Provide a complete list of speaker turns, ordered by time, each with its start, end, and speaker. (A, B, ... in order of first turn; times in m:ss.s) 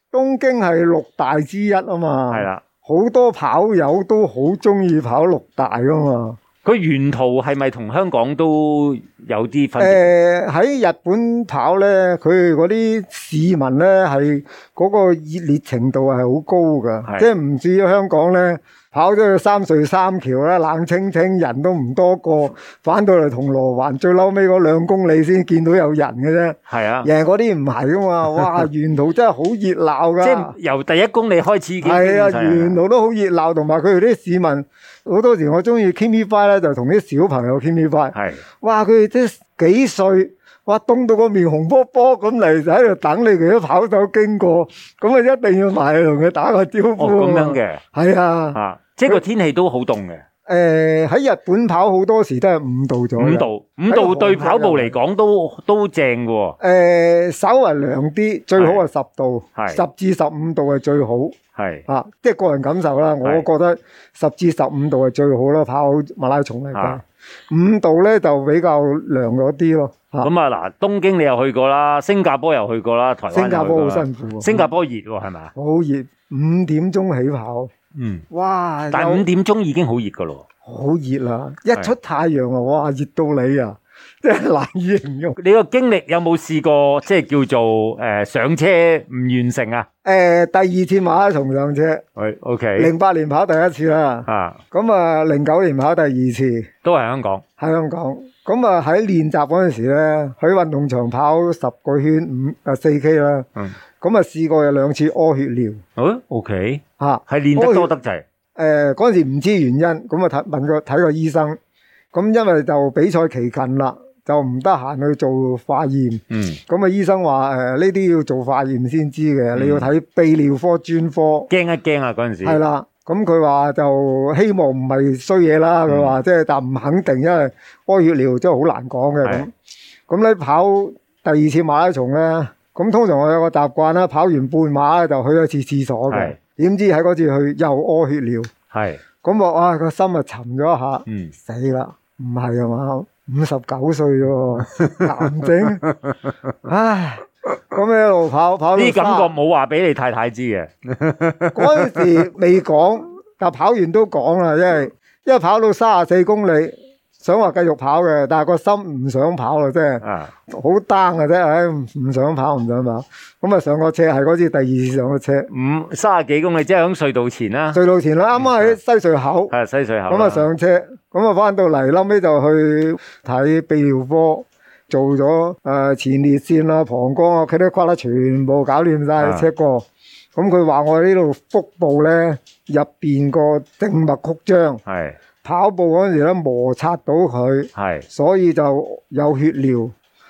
0:00.1-0:06.4 A
0:02.3-0:02.6 B
0:06.6-0:10.1 B
0:09.8-0:30.6 A
0:26.7-0:27.1 B
0:30.2-0:32.8 B
0:31.8-0:49.2 A
0:38.1-0:38.4 B
0:47.0-0:47.8 B
0:48.5-0:50.2 B
0:50.5-0:55.0 A
0:53.2-0:56.6 B
0:56.6-1:01.4 A
0:58.6-0:58.8 B
0:59.6-0:59.8 B
1:01.6-1:01.8 B
1:01.9-1:10.3 A
1:06.8-1:07.0 B
1:10.2-1:15.5 B
1:13.3-1:14.7 A
1:15.6-1:17.7 A
1:18.0-1:18.2 B
1:18.3-1:19.3 A
1:18.9-1:20.4 B
1:20.6-1:25.4 A
1:25.4-1:29.9 B
1:30.0-1:32.0 A
1:32.2-1:32.9 B
1:32.8-1:36.7 A
1:34.3-1:34.6 B
1:36.8-1:37.4 B
1:37.6-1:43.5 A
1:44.0-1:45.8 A
1:46.0-1:48.2 B
1:47.0-1:47.9 A
1:48.6-1:51.6 A
1:52.1-2:01.5 A
1:56.3-1:56.6 B
1:59.6-1:59.9 B
2:01.5-2:02.6 B
2:02.4-2:09.5 A
2:05.9-2:06.2 B
2:10.1-2:18.5 A
2:16.1-2:16.4 B
2:18.7-2:19.0 B
2:19.2-2:25.8 A
2:21.1-2:21.3 B
2:24.8-2:26.1 B
2:26.6-2:29.3 A
2:28.8-2:32.1 B
2:31.5-2:45.5 A
2:40.0-2:40.3 B
2:45.5-2:47.8 B
2:47.7-2:49.5 A
2:48.4-2:48.8 B
2:49.5-2:50.5 B
2:50.1-3:04.8 A
2:59.2-2:59.5 B
3:04.9-3:05.2 B
3:05.4-3:09.9 A
3:07.8-3:08.1 B